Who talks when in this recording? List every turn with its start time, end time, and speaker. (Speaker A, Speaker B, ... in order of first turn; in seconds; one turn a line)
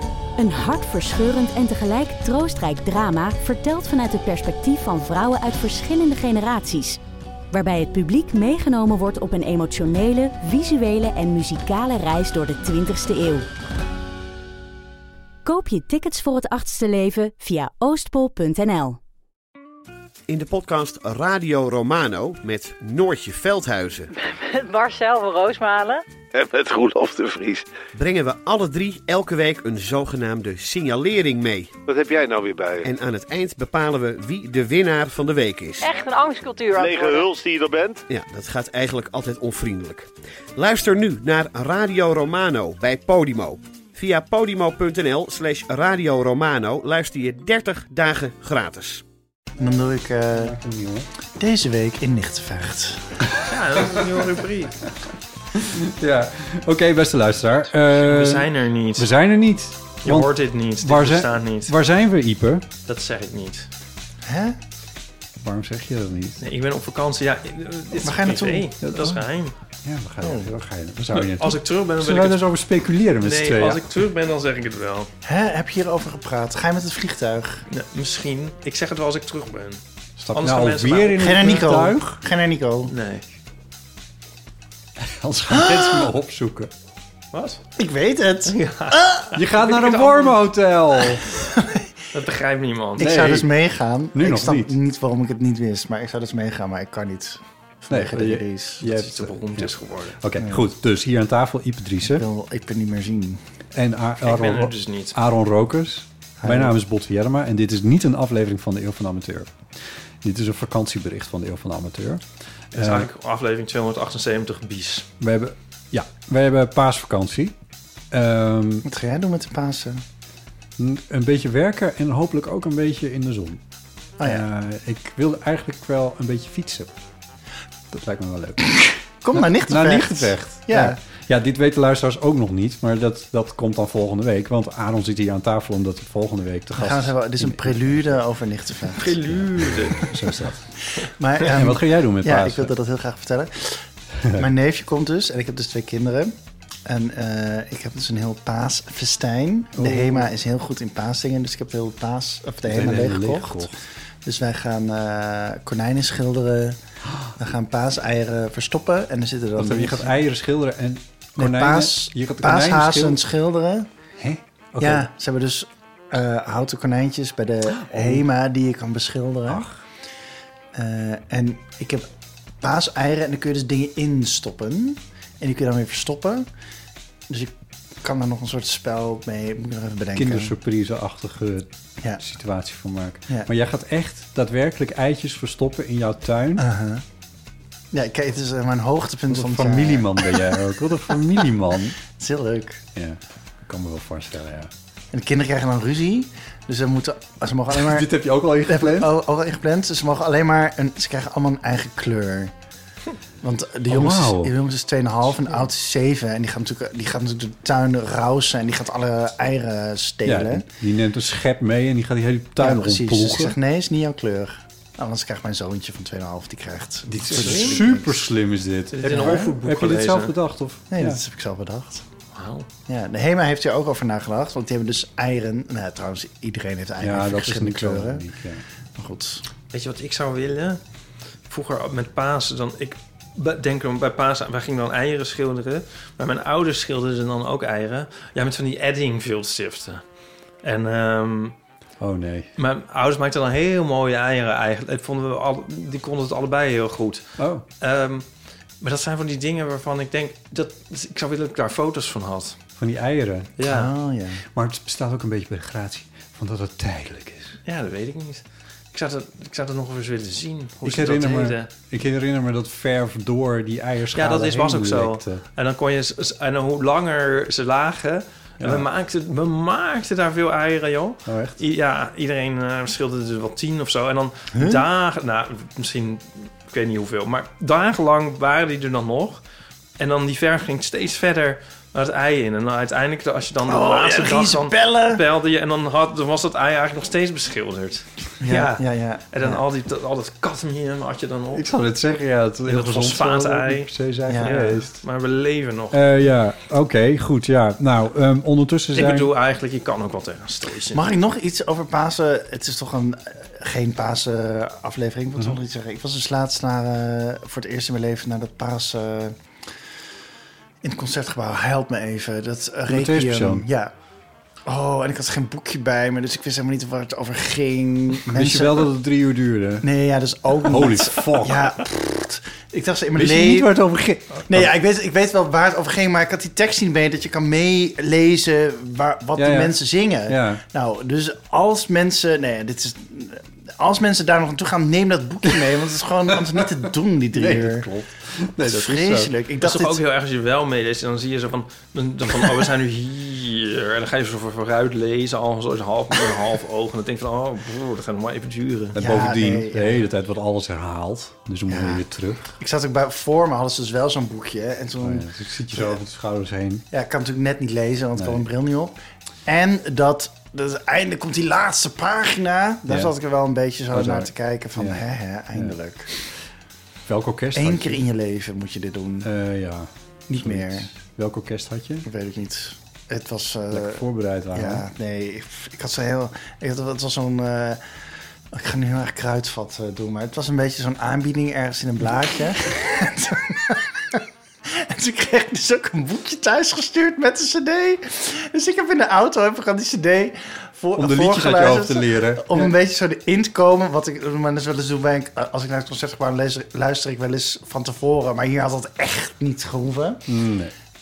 Speaker A: 0.4-7.0
Speaker A: 7.5-13.5
Speaker A: 15.4-19.0
Speaker B: 20.3-24.1
Speaker C: 24.2-26.0
Speaker D: 26.4-27.6
Speaker B: 27.9-31.7
Speaker D: 31.9-32.9
Speaker B: 32.8-35.9
Speaker C: 35.8-37.3
Speaker D: 36.8-38.0
Speaker B: 38.1-49.0
Speaker E: 49.6-50.5
Speaker F: 50.3-51.1
Speaker E: 51.4-53.0
Speaker G: 53.4-54.8
Speaker F: 53.8-54.0
Speaker F: 55.5-62.7
Speaker G: 57.9-59.1
Speaker G: 60.0-61.7
Speaker G: 62.8-63.7
Speaker E: 64.2-64.6
Speaker F: 65.4-66.4
Speaker G: 66.4-69.5
Speaker E: 67.9-68.7
Speaker F: 68.8-69.2
Speaker F: 69.8-73.9
Speaker E: 70.2-70.5
Speaker G: 71.1-72.4
Speaker G: 73.2-75.1
Speaker E: 75.2-77.6
Speaker G: 77.7-79.8
Speaker F: 80.2-82.2
Speaker G: 80.3-81.3
Speaker E: 81.2-82.9
Speaker G: 82.8-83.2
Speaker F: 85.0-86.7
Speaker E: 85.5-86.1
Speaker G: 87.3-87.6
Speaker E: 87.8-89.3
Speaker G: 88.5-90.4
Speaker F: 89.3-91.3
Speaker E: 91.3-91.9
Speaker G: 92.1-93.2
Speaker E: 93.0-98.8
Speaker F: 93.0-93.5
Speaker F: 94.1-94.8
Speaker F: 97.9-102.2
Speaker G: 98.8-100.2
Speaker E: 102.0-103.4
Speaker F: 103.7-109.5
Speaker G: 104.2-105.1
Speaker E: 106.4-106.8
Speaker F: 110.2-112.2
Speaker G: 112.7-115.1
Speaker F: 112.7-113.1
Speaker F: 115.2-117.5
Speaker F: 118.1-118.8
Speaker E: 118.8-120.0
Speaker F: 120.8-123.6
Speaker E: 124.2-124.5
Speaker F: 124.2-126.9
Speaker F: 127.9-128.8
Speaker E: 129.2-131.0
Speaker F: 129.3-138.2
Speaker E: 136.8-139.2
Speaker G: 138.9-140.1
Speaker F: 139.2-140.6
Speaker E: 141.0-143.8
Speaker F: 141.4-142.7
Speaker E: 144.4-146.3
Speaker E: 146.8-153.7
Speaker F: 149.7-150.3
Speaker F: 152.7-153.8
Speaker E: 154.2-156.8
Speaker E: 157.4-160.1
Speaker F: 159.6-163.2
Speaker E: 161.4-163.9
Speaker F: 164.2-165.1
Speaker E: 164.8-169.7
Speaker F: 167.7-168.2
Speaker F: 169.4-169.8
Speaker E: 170.7-172.1
Speaker E: 172.6-176.5
Speaker E: 177.3-180.5
Speaker F: 180.1-186.6
Speaker E: 186.6-187.0
Speaker E: 187.9-190.4
Speaker F: 189.3-192.0
Speaker E: 192.2-192.8
Speaker F: 192.9-194.7
Speaker E: 195.1-198.1
Speaker F: 197.7-199.1
Speaker E: 198.7-202.5
Speaker E: 203.4-210.6
Speaker F: 203.9-204.6
Speaker F: 210.2-213.6
Speaker E: 212.6-218.2
Speaker F: 217.1-221.2
Speaker G: 217.3-217.8
Speaker G: 218.9-220.3
Speaker E: 219.1-219.5
Speaker E: 220.9-222.0
Speaker G: 222.3-222.7
Speaker E: 222.9-228.2
Speaker F: 227.0-228.6
Speaker E: 229.0-229.4
Speaker G: 229.7-230.8
Speaker G: 231.5-240.0
Speaker G: 240.6-241.5
Speaker F: 242.0-242.5
Speaker G: 242.6-247.2
Speaker F: 247.4-247.6
Speaker G: 247.8-248.2
Speaker G: 248.8-252.6
Speaker F: 252.8-253.6
Speaker G: 253.6-253.9
Speaker E: 253.7-254.4
Speaker F: 254.4-257.6
Speaker G: 257.6-261.7
Speaker F: 260.8-265.4
Speaker G: 264.1-279.4
Speaker F: 268.6-268.9
Speaker F: 271.2-271.6
Speaker E: 274.5-274.9
Speaker G: 280.0-291.7
Speaker E: 283.6-285.2
Speaker E: 288.4-289.6
Speaker F: 291.5-295.0
Speaker G: 292.6-296.1
Speaker E: 294.3-294.6
Speaker F: 295.9-299.3
Speaker G: 298.9-301.0
Speaker E: 300.9-309.3
Speaker E: 310.8-313.9
Speaker F: 312.9-313.6
Speaker E: 314.7-318.9
Speaker F: 318.3-319.9
Speaker E: 319.8-323.7
Speaker F: 320.6-321.7
Speaker F: 323.1-324.7
Speaker E: 324.5-337.9
Speaker F: 329.4-330.6
Speaker F: 337.3-339.3
Speaker E: 338.6-340.0
Speaker G: 339.6-349.0
Speaker F: 348.9-352.5
Speaker E: 349.0-350.0
Speaker E: 351.7-352.0
Speaker E: 352.6-355.9
Speaker F: 355.0-356.9
Speaker E: 356.9-366.1
Speaker F: 358.1-358.4
Speaker F: 362.9-363.1
Speaker F: 363.9-365.8
Speaker F: 367.1-368.0
Speaker E: 367.5-369.3
Speaker F: 369.2-372.1
Speaker E: 370.3-370.9
Speaker E: 372.0-374.0
Speaker F: 373.7-374.8
Speaker E: 374.5-377.8
Speaker E: 378.5-400.2
Speaker F: 391.0-392.7
Speaker F: 400.3-400.7